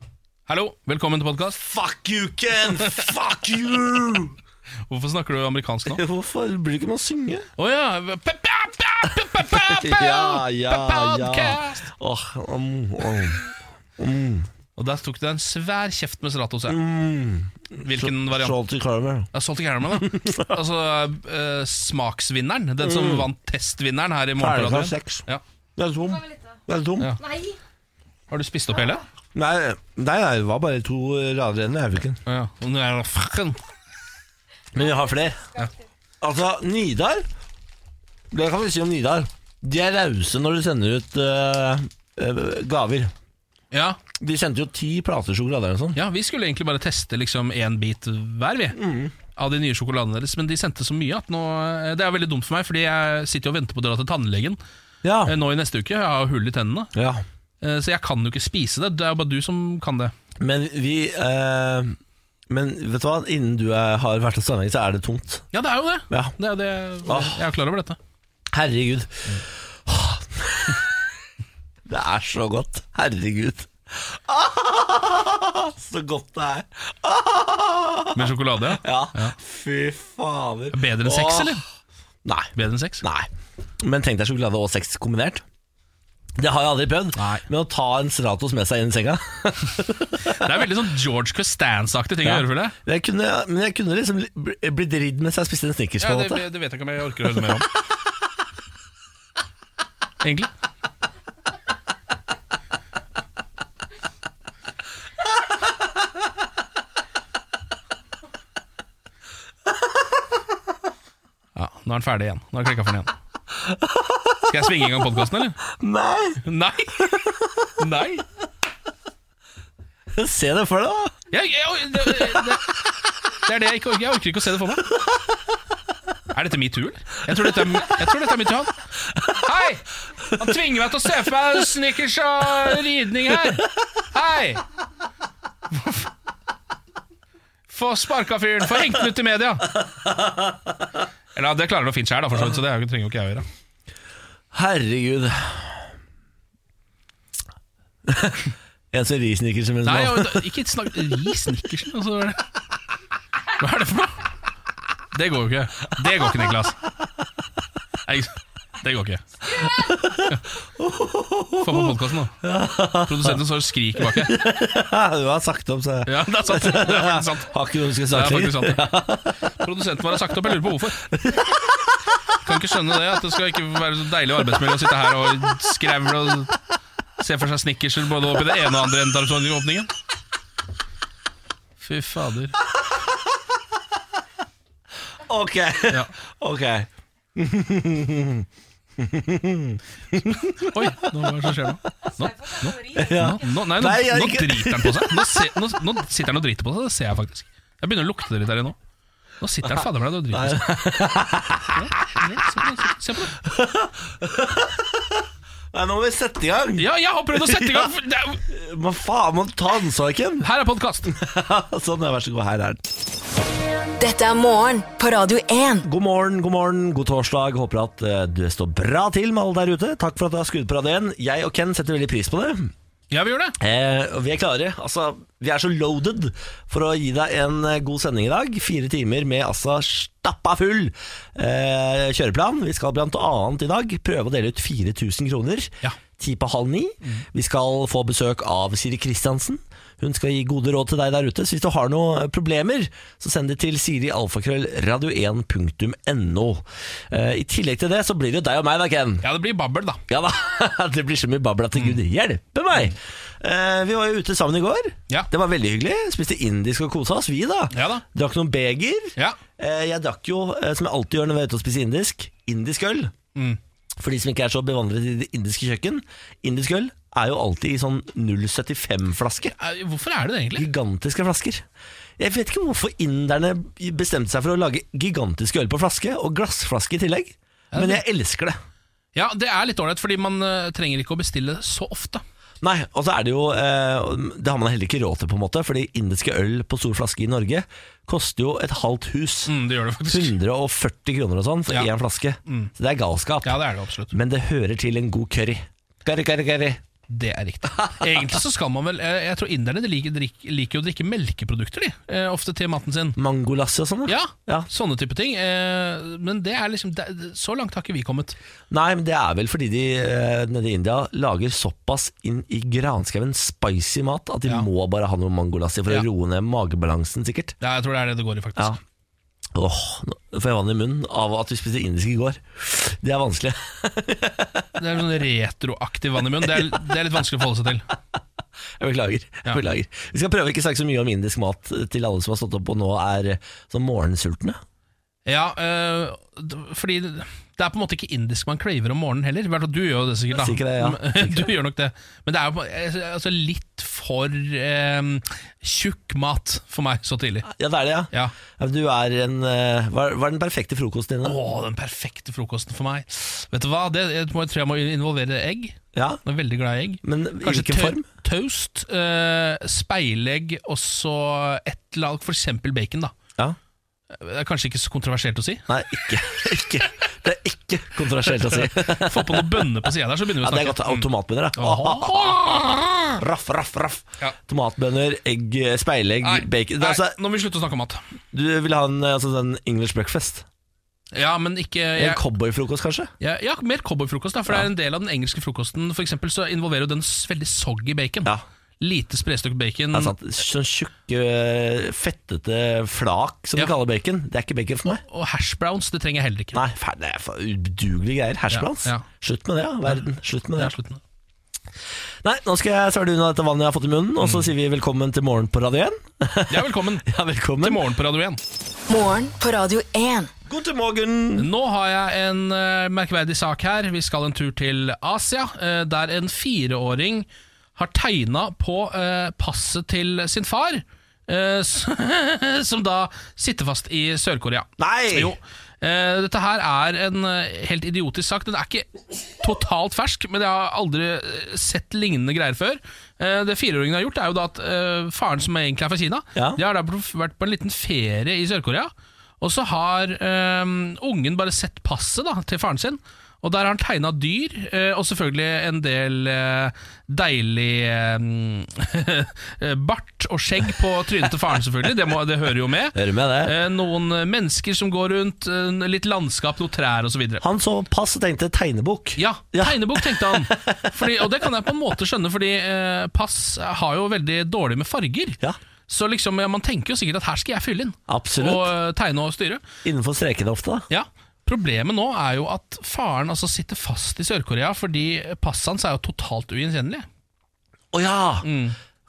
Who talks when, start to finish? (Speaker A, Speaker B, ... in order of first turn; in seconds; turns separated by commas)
Speaker A: 0.5-1.6, Speaker B: 1.6-4.3, Speaker A: 2.7-3.1, Speaker A: 4.9-6.0, Speaker B: 5.8-7.5, Speaker A: 7.6-11.9, Speaker B: 9.4-13.5, Speaker B: 14.0-14.5, Speaker A: 14.8-16.8, Speaker B: 16.7-19.3, Speaker A: 17.8-18.5, Speaker A: 19.3-25.4, Speaker B: 19.9-20.5, Speaker B: 22.8-23.3, Speaker B: 24.4-25.2, Speaker B: 25.8-27.2, Speaker A: 27.0-27.5, Speaker A: 28.3-29.0, Speaker B: 29.3-32.2, Speaker A: 32.2-33.6, Speaker B: 34.7-35.5, Speaker B: 36.2-37.2, Speaker B: 38.3-43.1, Speaker A: 43.7-44.0, Speaker B: 44.1-46.0, Speaker A: 45.9-48.8, Speaker B: 48.8-49.1, Speaker A: 49.3-54.6, Speaker B: 55.0-55.4, Speaker A: 55.2-56.9, Speaker B: 56.9-57.2, Speaker A: 57.6-60.1, Speaker B: 60.4-62.0, Speaker B: 62.5-65.4, Speaker A: 65.5-68.0, Speaker B: 66.1-66.3, Speaker B: 67.0-67.4, Speaker B: 68.5-71.0, Speaker B: 71.9-81.6, Speaker A: 78.1-79.3, Speaker A: 80.7-81.6, Speaker B: 82.2-83.3, Speaker A: 82.5-83.0, Speaker B: 83.8-85.4, Speaker B: 86.4-90.5, Speaker A: 87.2-87.4, Speaker A: 90.2-92.7, Speaker B: 92.2-96.4, Speaker A: 96.0-97.7, Speaker A: 100.2-100.5, Speaker A: 111.5-113.1, Speaker B: 113.7-114.5, Speaker A: 114.5-115.6, Speaker B: 115.7-116.4, Speaker A: 116.4-117.2, Speaker B: 117.1-117.7, Speaker A: 117.8-118.2, Speaker B: 120.1-121.2, Speaker A: 121.3-122.8, Speaker A: 123.3-124.9, Speaker A: 126.3-128.8, Speaker A: 129.3-134.6, Speaker A: 135.7-136.1, Speaker A: 137.7-139.7, Speaker B: 140.0-140.6, Speaker A: 141.3-143.4, Speaker B: 144.5-145.8, Speaker B: 148.1-150.5, Speaker A: 149.8-152.5, Speaker A: 153.6-154.2, Speaker A: 155.1-156.8, Speaker A: 158.0-159.2, Speaker B: 159.6-163.4, Speaker A: 161.6-164.4, Speaker B: 164.1-169.4, Speaker A: 166.1-168.9, Speaker A: 169.5-171.0, Speaker B: 171.0-171.8, Speaker A: 172.4-176.5, Speaker A: 177.2-179.9, Speaker A: 181.8-182.5, Speaker B: 185.3-188.4, Speaker B: 189.0-191.2, Speaker A: 190.6-198.8, Speaker B: 192.8-195.6, Speaker A: 199.4-200.8, Speaker B: 199.7-202.2, Speaker A: 201.7-203.3, Speaker B: 203.4-207.9, Speaker A: 206.8-208.4, Speaker B: 208.5-210.5, Speaker A: 210.4-211.1, Speaker B: 211.1-212.9, Speaker C: 214.0-215.9, Speaker B: 215.8-222.7, Speaker A: 223.1-223.6, Speaker B: 223.6-249.3, Speaker A: 249.2-250.0, Speaker B: 250.1-263.1, Speaker A: 257.7-258.0, Speaker A: 263.3-263.6, Speaker B: 264.0-269.5, Speaker A: 269.5-270.7, Speaker B: 270.6-271.6, Speaker B: 272.2-278.6, Speaker A: 277.7-278.0, Speaker A: 279.1-282.2, Speaker B: 282.6-289.5, Speaker A: 289.5-290.3, Speaker B: 290.1-293.6, Speaker A: 292.4-292.7, Speaker A: 293.4-294.1, Speaker B: 294.1-296.8, Speaker A: 297.1-303.2, Speaker B: 303.2-304.7, Speaker A: 304.1-308.4, Speaker B: 308.7-317.5, Speaker A: 317.6-318.8, Speaker B: 319.5-324.7, Speaker A: 324.8-327.9, Speaker B: 328.8-334.6, Speaker A: 335.2-347.5, Speaker B: 340.3-341.5, Speaker B: 347.4-351.4, Speaker A: 351.2-363.1, Speaker B: 355.9-356.2, Speaker B: 357.0-358.1, Speaker A: 364.1-365.6, Speaker B: 365.7-369.7, Speaker A: 368.5-373.2, Speaker B: 370.4-372.6, Speaker B: 373.1-377.2, Speaker A: 376.2-378.0, Speaker B: 378.3-380.4, Speaker A: 381.1-382.2, Speaker B: 382.0-383.1, Speaker A: 383.2-390.1, Speaker B: 389.9-395.0, Speaker A: 395.0-396.6, Speaker B: 396.5-400.7, Speaker A: 398.5-399.1, Speaker A: 400.6-401.0, Speaker B: 402.2-407.8, Speaker A: 404.2-404.5, Speaker A: 406.5-408.4, Speaker C: 408.9-410.3, Speaker B: 410.5-411.5, Speaker A: 411.4-457.4, Speaker B: 424.8-425.3, Speaker B: 436.3-436.6, Speaker B: 452.9-453.6, Speaker B: 457.4-461.3, Speaker A: 459.2-469.6, Speaker B: 468.1-468.7, Speaker B: 469.8-470.9, Speaker A: 470.9-477.1, Speaker B: 477.9-478.5, Speaker A: 478.4-478.8